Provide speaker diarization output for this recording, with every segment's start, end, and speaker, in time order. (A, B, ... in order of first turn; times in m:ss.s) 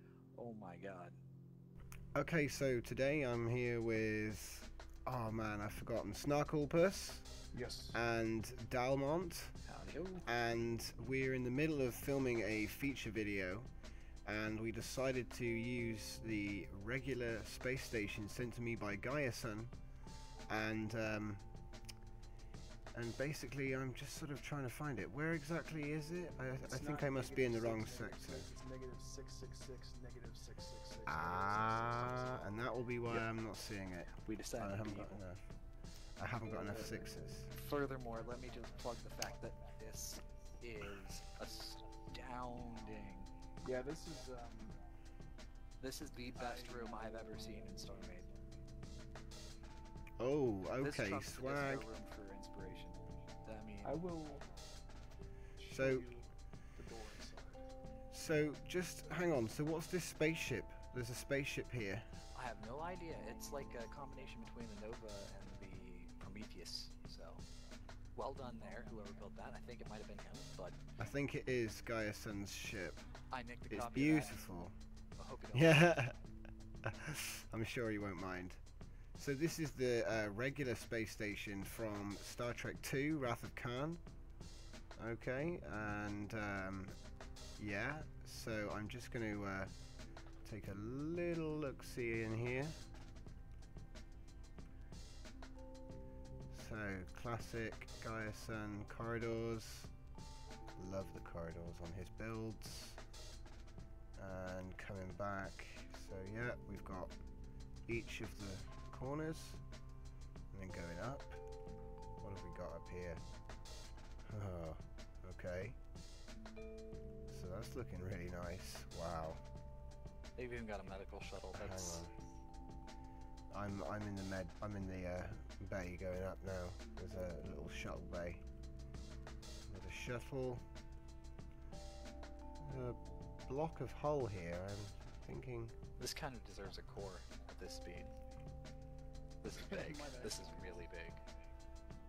0:00.3-0:01.2 A
0:02.1-0:07.3 B
0:07.5-0:08.0 C
0:07.9-0:09.6 B
0:09.7-0:10.3 A
0:10.2-0:13.7 B
0:14.2-0:19.7 B
0:20.5-0:21.4 B
0:22.9-0:28.5 B
0:26.7-0:32.4 C
0:31.0-0:35.4 B
0:34.1-0:35.2 A
0:36.2-0:37.5 B
0:37.5-0:43.3 A
0:43.6-0:44.8 C
0:45.8-0:48.3 A
0:46.3-0:46.8 C
0:50.2-0:51.9 B
0:50.8-0:54.0 A
0:53.8-0:54.5 C
0:55.6-0:57.7 C
0:55.7-0:56.1 B
0:58.1-1:02.1 B
1:02.3-1:07.4 A
1:08.1-1:10.8 A
1:11.0-1:13.0 B
1:13.3-1:14.3 A
1:13.7-1:14.7 B
1:15.2-1:15.8 A
1:15.5-1:16.2 B
1:16.8-1:18.6 B
1:19.2-1:24.0 B
1:25.0-1:26.9 B
1:27.6-1:29.7 B
1:30.4-1:32.8 B
1:36.5-1:39.9 B
1:40.8-1:43.0 B
1:44.2-1:47.1 B
1:47.9-1:49.6 B
1:50.5-1:51.4 B
1:52.2-1:53.2 B
1:54.3-1:55.8 B
1:57.3-1:59.4 B
2:00.4-2:02.1 A
2:01.5-2:02.1 B
2:03.5-2:08.4 B
2:09.7-2:10.6 B
2:12.6-2:15.7 B
2:16.0-2:18.1 A
2:19.4-2:21.2 A
2:19.5-2:20.8 C